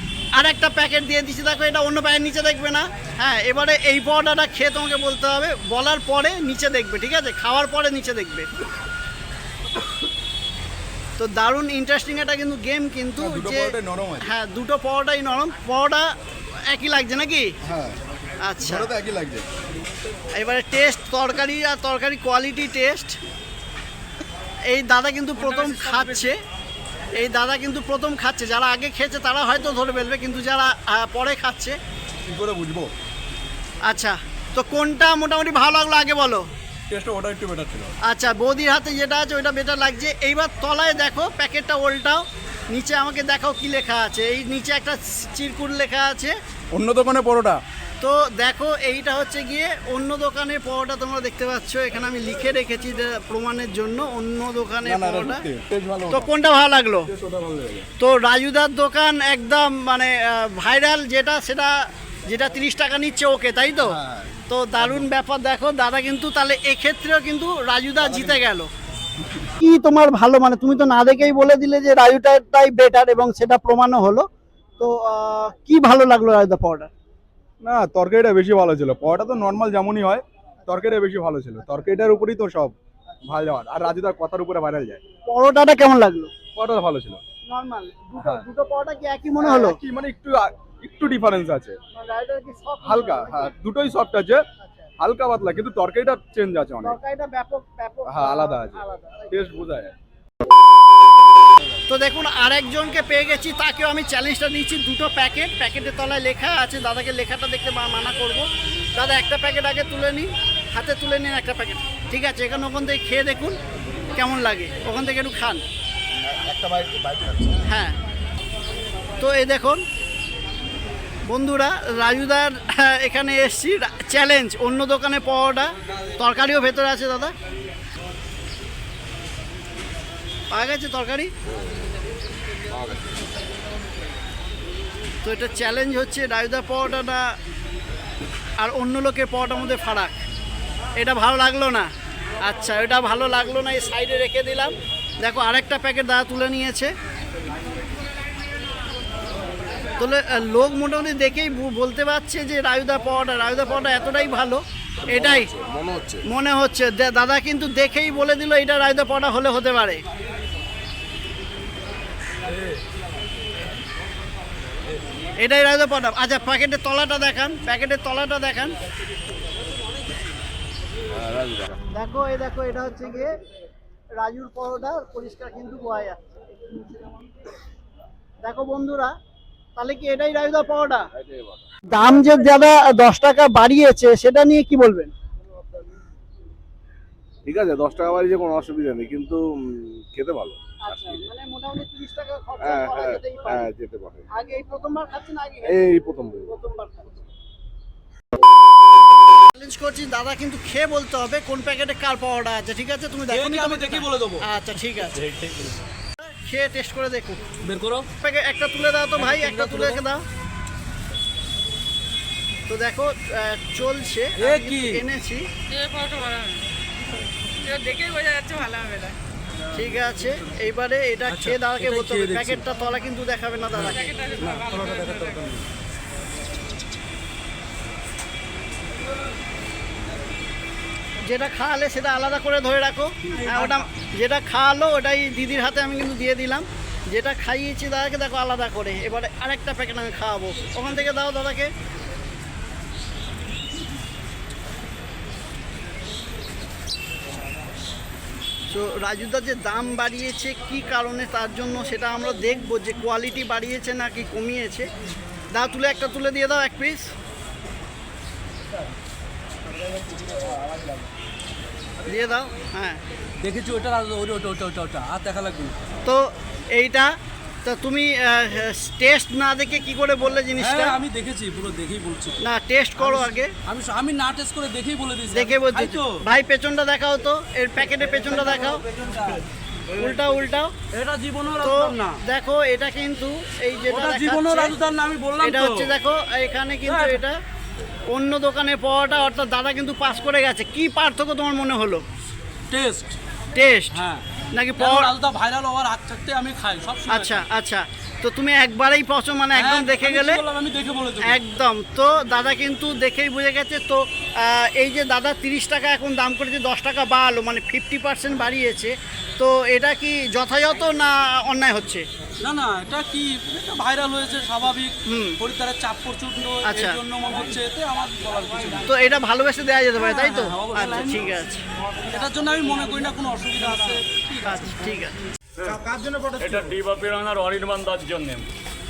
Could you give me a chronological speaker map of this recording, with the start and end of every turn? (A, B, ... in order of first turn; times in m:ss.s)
0:00.3-0:08.5 A
0:11.2-0:16.1 A
0:13.2-0:14.3 B
0:16.7-0:17.5 A
0:17.6-0:18.0 B
0:18.4-0:18.9 A
0:18.6-0:19.5 B
0:20.3-0:23.2 A
0:24.7-0:26.4 A
0:25.4-0:26.3 C
0:27.1-0:31.8 A
0:32.2-0:32.9 B
0:33.8-0:36.5 A
0:36.9-0:37.9 B
0:38.0-0:46.4 A
0:46.7-0:47.6 B
0:48.0-0:55.5 A
0:54.8-0:56.3 B
0:56.1-0:57.1 A
0:57.0-0:57.9 B
0:58.0-1:08.7 A
1:03.8-1:05.1 B
1:08.0-1:08.4 B
1:09.6-1:14.3 A
1:14.8-1:16.9 A
1:17.6-1:25.0 B
1:25.2-1:26.3 A
1:26.5-1:27.2 B
1:27.4-1:29.8 A
1:28.2-1:28.4 B
1:29.4-1:31.8 B
1:31.9-1:33.5 A
1:32.8-1:34.4 B
1:34.6-1:34.9 A
1:35.0-1:37.0 B
1:36.8-1:39.4 A
1:38.0-1:39.9 B
1:41.8-1:53.6 A
1:54.2-1:55.6 A
1:56.2-1:57.7 B
1:57.6-1:58.0 A
1:59.2-1:59.8 A
2:01.2-2:07.3 A
2:10.5-2:11.3 A
2:12.7-2:13.2 D
2:15.2-2:17.3 A
2:18.6-2:20.2 A
2:21.0-2:21.9 A
2:22.4-2:26.9 A
2:30.0-2:35.5 A
2:35.2-2:36.2 D
2:36.2-2:40.0 A
2:45.4-2:48.8 A
2:51.1-2:51.8 D
2:51.9-2:53.3 A
2:54.2-2:57.1 A
2:58.4-2:59.1 A
2:59.8-3:01.1 A
3:01.1-3:01.6 D
3:01.9-3:05.1 A
3:07.4-3:11.2 D
3:10.8-3:13.7 A
3:12.6-3:14.2 D
3:14.3-3:17.2 A
3:15.6-3:16.5 D
3:19.5-3:25.3 A
3:23.3-3:24.5 C
3:25.2-3:25.7 C
3:26.2-3:27.4 A
3:27.6-3:28.1 C
3:28.2-3:30.2 A
3:29.2-3:30.0 C
3:32.7-3:35.5 A
3:34.4-3:35.0 C
3:35.7-3:36.6 C
3:35.8-3:36.6 E
3:37.6-3:39.0 C
3:37.7-3:39.2 E
3:39.7-3:44.3 A
3:41.3-3:42.6 C
3:43.8-3:45.6 C
3:44.2-3:44.8 E
3:51.2-4:01.7 A
3:53.3-3:53.8 C
4:08.7-4:14.9 A
4:15.5-4:17.1 A
4:22.0-4:23.0 A
4:23.4-4:25.7 C
4:26.0-4:31.0 A
4:30.6-4:32.4 C
4:32.4-4:33.5 A
4:33.0-4:36.2 C
4:35.3-4:38.8 A
4:38.7-4:39.4 C
4:39.9-4:40.7 A
4:40.9-4:42.2 C
4:41.6-4:44.8 A
4:43.9-4:45.9 C
4:45.4-4:47.4 A
4:46.8-4:47.2 C
4:48.1-4:52.0 A
4:52.7-4:53.2 C
4:53.5-4:54.0 A
4:53.9-4:54.2 C
4:54.5-4:55.1 A
4:54.8-4:57.4 C
4:57.1-5:00.4 A
4:59.5-5:01.4 C
5:01.2-5:12.0 A
5:12.4-5:18.9 C
5:15.0-5:15.4 A
5:16.6-5:17.0 A
5:18.8-5:21.6 A
5:20.0-5:21.4 C
5:22.0-5:24.8 C
5:24.4-5:25.1 A
5:25.6-5:25.8 F
5:25.6-5:26.5 C
5:26.4-5:28.5 F